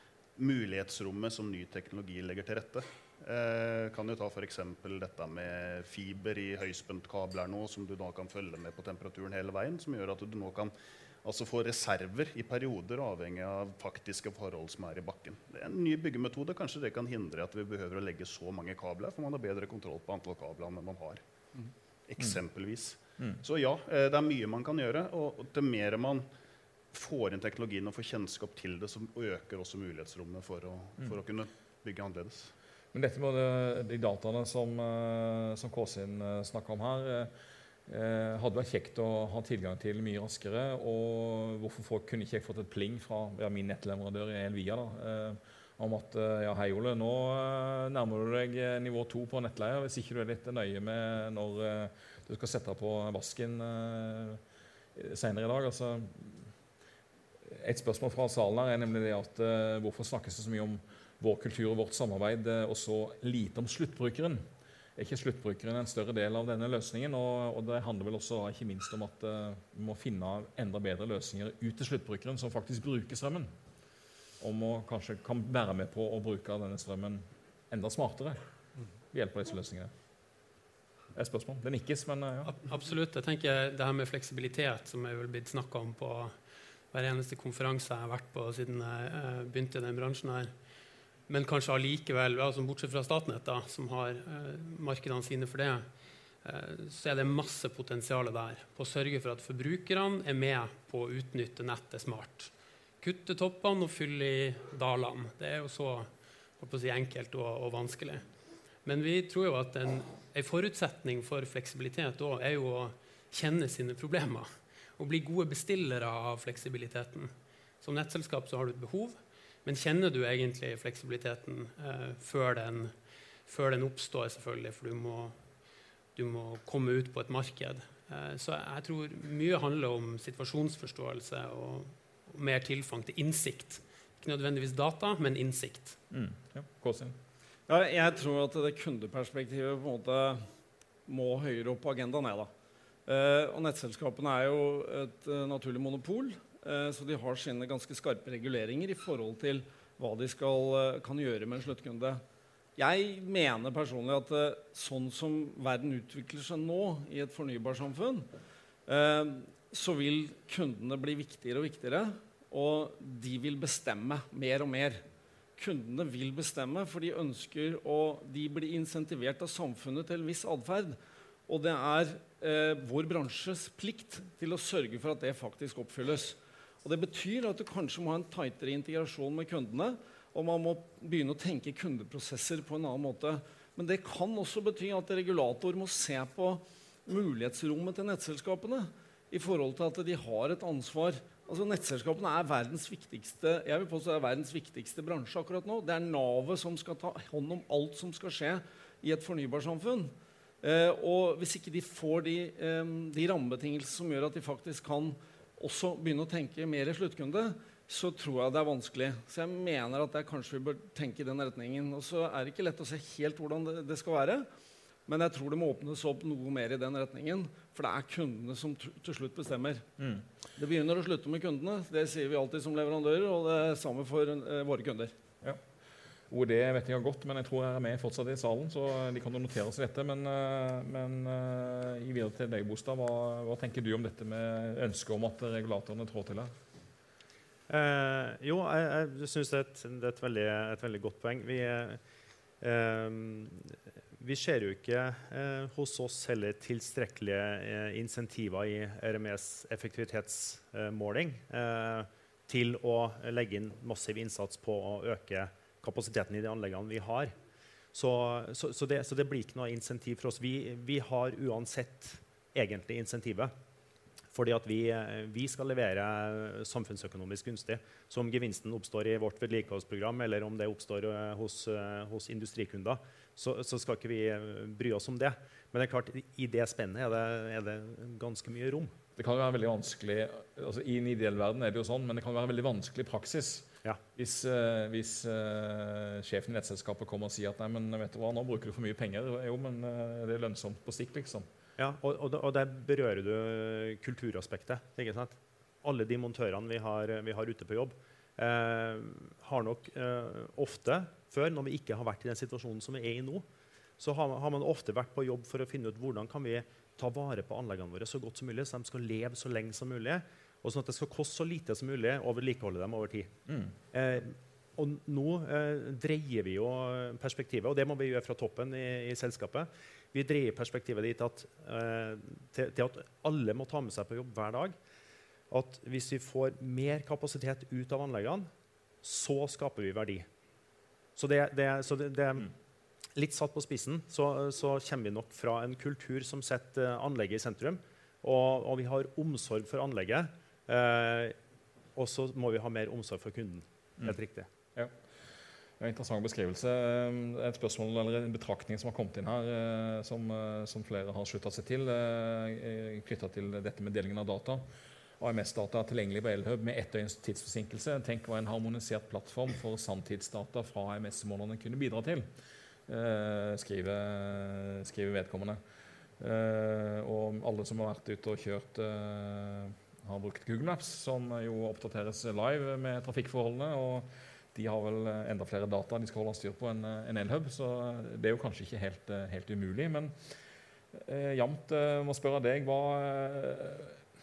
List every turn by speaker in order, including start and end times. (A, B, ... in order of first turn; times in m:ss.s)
0:00.4-0:10.7 A
0:11.2-0:21.2 A
0:22.1-0:26.3 A
0:26.9-0:32.5 A
0:32.9-0:37.3 B
0:37.9-0:54.4 B
0:55.0-0:56.5 B
0:57.5-1:04.4 B
1:05.0-1:13.5 B
1:14.4-1:18.4 B
1:19.1-1:19.9 B
1:21.1-1:22.5 B
1:22.4-1:26.4 C
1:26.9-1:30.5 C
1:31.3-1:35.9 C
1:36.4-1:48.2 C
1:48.8-2:02.9 C
2:03.4-2:05.4 C
2:06.1-2:16.0 C
2:16.1-2:17.2 B
2:17.7-2:20.4 D
2:21.0-2:22.5 D
2:23.0-2:32.2 D
2:32.8-2:38.2 D
2:38.9-2:45.0 D
2:45.6-2:51.0 D
2:51.5-3:34.4 D
3:35.0-3:39.8 D
3:40.0-3:40.2 B
3:40.6-3:45.1 D
3:46.3-3:56.5 B
3:57.7-4:02.0 E
4:02.6-4:17.3 E
4:17.9-4:23.5 E
4:24.3-4:38.9 E
4:39.2-4:51.5 B
4:51.8-5:03.4 E
5:04.0-5:13.3 E
5:13.5-5:13.7 B
5:13.9-5:24.8 E
5:25.5-5:28.5 E
5:29.0-5:30.3 E
5:31.2-5:32.5 E
5:33.2-5:41.4 E
5:42.0-5:44.5 E
5:45.8-5:54.6 B
5:55.2-6:02.3 B
6:02.9-6:05.6 B
6:06.2-6:20.1 B
6:20.9-6:24.0 B